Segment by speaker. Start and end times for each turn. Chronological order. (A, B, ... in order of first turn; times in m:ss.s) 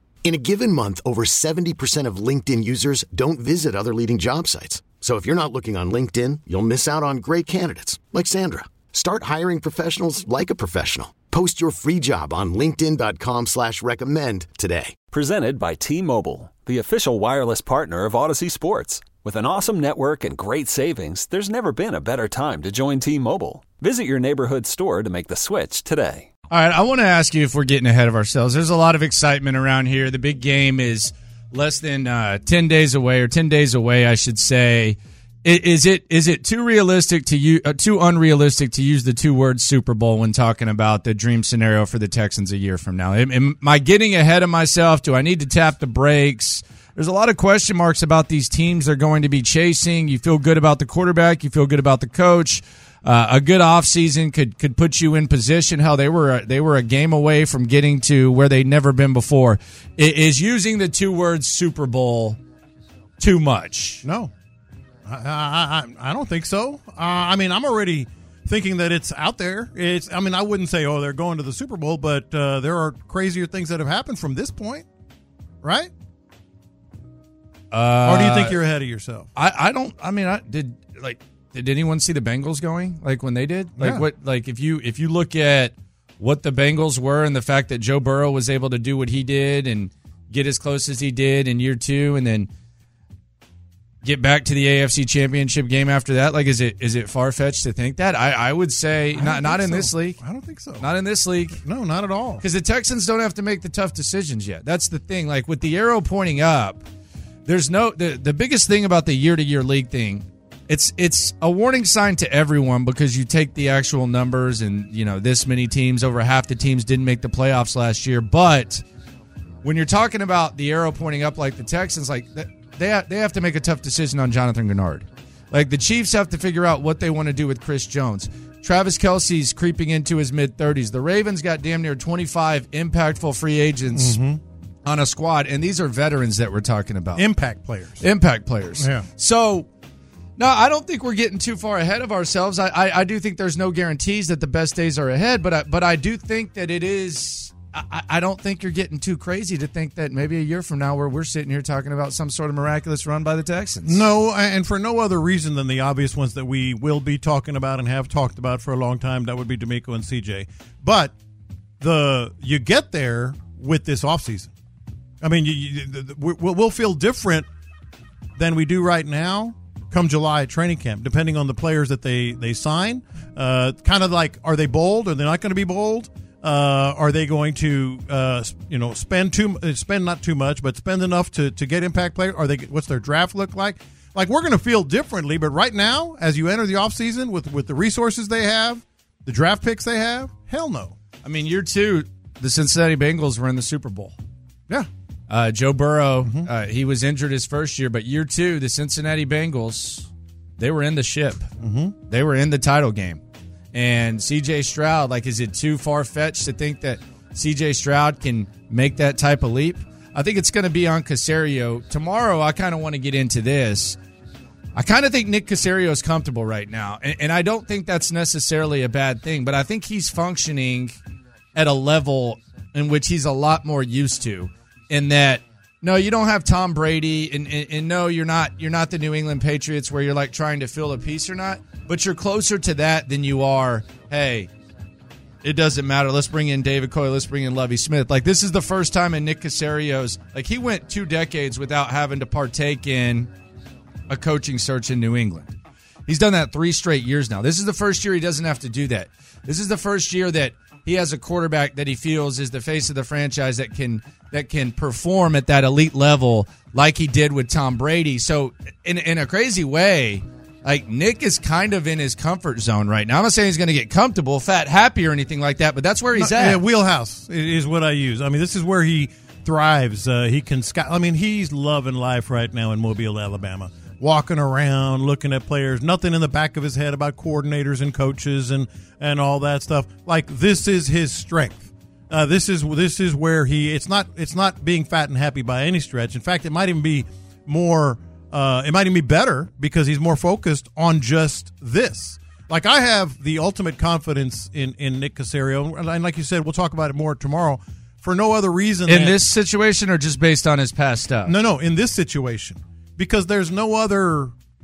0:00.2-0:15.0 A
0:15.1-0:26.3 B
0:26.5-1:02.4 C
1:03.2-1:04.0 C
1:04.0-1:04.3 D
1:05.1-1:14.8 D
1:15.6-1:15.9 D
1:17.7-1:18.6 C
1:18.0-1:19.3 D
1:19.3-1:32.5 C
1:23.8-1:24.1 D
1:34.0-1:40.2 C
1:39.1-1:40.9 D
1:40.8-1:41.6 C
1:41.6-1:42.4 D
1:42.4-1:46.8 C
1:47.5-1:58.8 C
1:59.6-2:14.2 C
2:13.9-2:14.4 D
2:14.8-2:17.2 C
2:17.1-2:18.1 D
2:18.0-2:19.7 C
2:18.8-2:19.1 D
2:20.4-2:34.1 C
2:33.8-2:41.1 D
2:41.8-2:44.5 D
2:45.2-2:47.5 D
2:48.4-3:11.0 D
3:11.2-3:14.2 C
3:15.3-3:21.5 C
3:16.2-3:16.5 D
3:21.6-3:22.0 D
3:22.1-3:23.2 C
3:23.7-3:34.0 C
3:34.8-3:41.0 C
3:41.5-3:54.5 C
3:55.4-4:03.3 C
4:04.1-4:05.5 C
4:06.1-4:26.6 C
4:26.1-4:59.2 D
4:58.9-5:01.3 C
5:01.2-5:04.3 D